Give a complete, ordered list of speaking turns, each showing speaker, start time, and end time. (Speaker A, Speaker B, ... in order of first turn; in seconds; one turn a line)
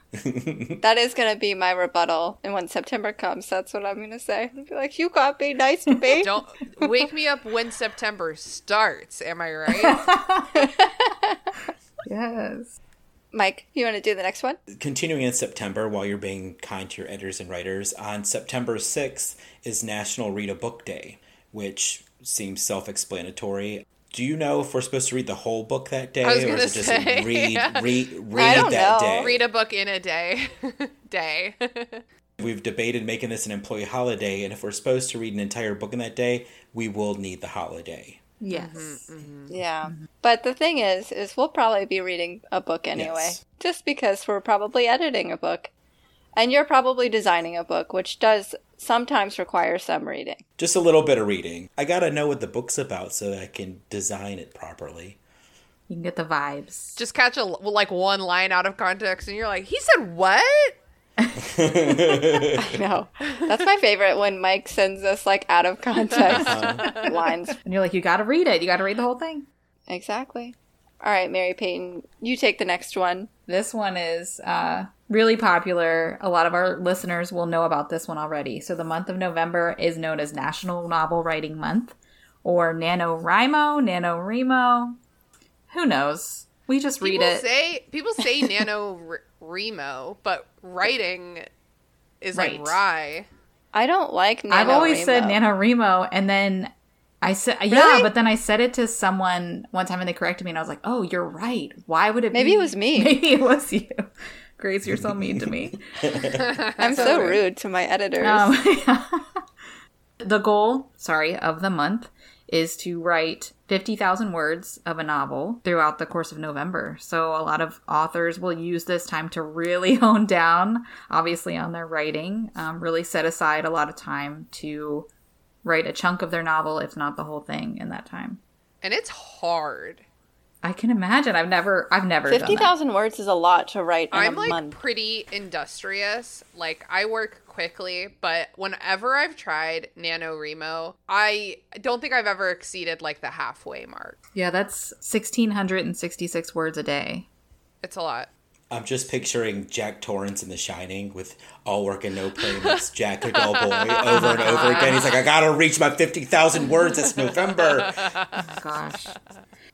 Speaker A: 0.2-0.8
Speaker B: 0.8-6.3
Speaker C: 6.2-10.0
Speaker D: 9.8-10.7
Speaker B: 10.5-11.4
Speaker D: 12.1-12.8
Speaker B: 13.3-14.6
Speaker A: 14.8-29.4
Speaker C: 26.2-32.0
Speaker B: 28.3-29.3
Speaker A: 32.4-38.2
Speaker D: 38.4-39.0
Speaker C: 38.5-39.6
Speaker B: 39.5-45.7
Speaker A: 42.9-43.4
Speaker B: 46.4-50.4
Speaker A: 50.6-55.2
Speaker D: 55.9-57.0
Speaker C: 57.0-60.8
Speaker D: 61.2-62.4
Speaker A: 61.5-62.7
Speaker B: 62.6-67.6
Speaker A: 66.3-66.9
Speaker C: 66.7-67.1
Speaker D: 67.7-69.5
Speaker B: 69.9-73.3
Speaker D: 73.5-85.0
Speaker D: 85.7-87.5
Speaker C: 87.0-91.5
Speaker C: 92.2-93.3
Speaker D: 92.3-92.8
Speaker B: 93.7-95.4
Speaker D: 94.5-96.7
Speaker D: 97.2-104.0
Speaker B: 97.7-98.1
Speaker B: 102.3-103.2
Speaker D: 104.6-106.2
Speaker A: 104.8-106.4
Speaker C: 106.4-107.3
Speaker B: 106.8-108.5
Speaker D: 106.8-107.4
Speaker D: 108.2-109.4
Speaker D: 110.2-125.1
Speaker D: 125.6-128.4
Speaker C: 128.8-130.0
Speaker D: 130.6-132.7
Speaker B: 132.3-134.8
Speaker C: 134.1-144.2
Speaker D: 144.3-147.3
Speaker C: 147.8-148.3
Speaker A: 148.7-158.0
Speaker C: 152.4-152.8
Speaker C: 153.3-155.2
Speaker D: 154.1-155.1
Speaker C: 157.3-158.4
Speaker D: 158.3-159.2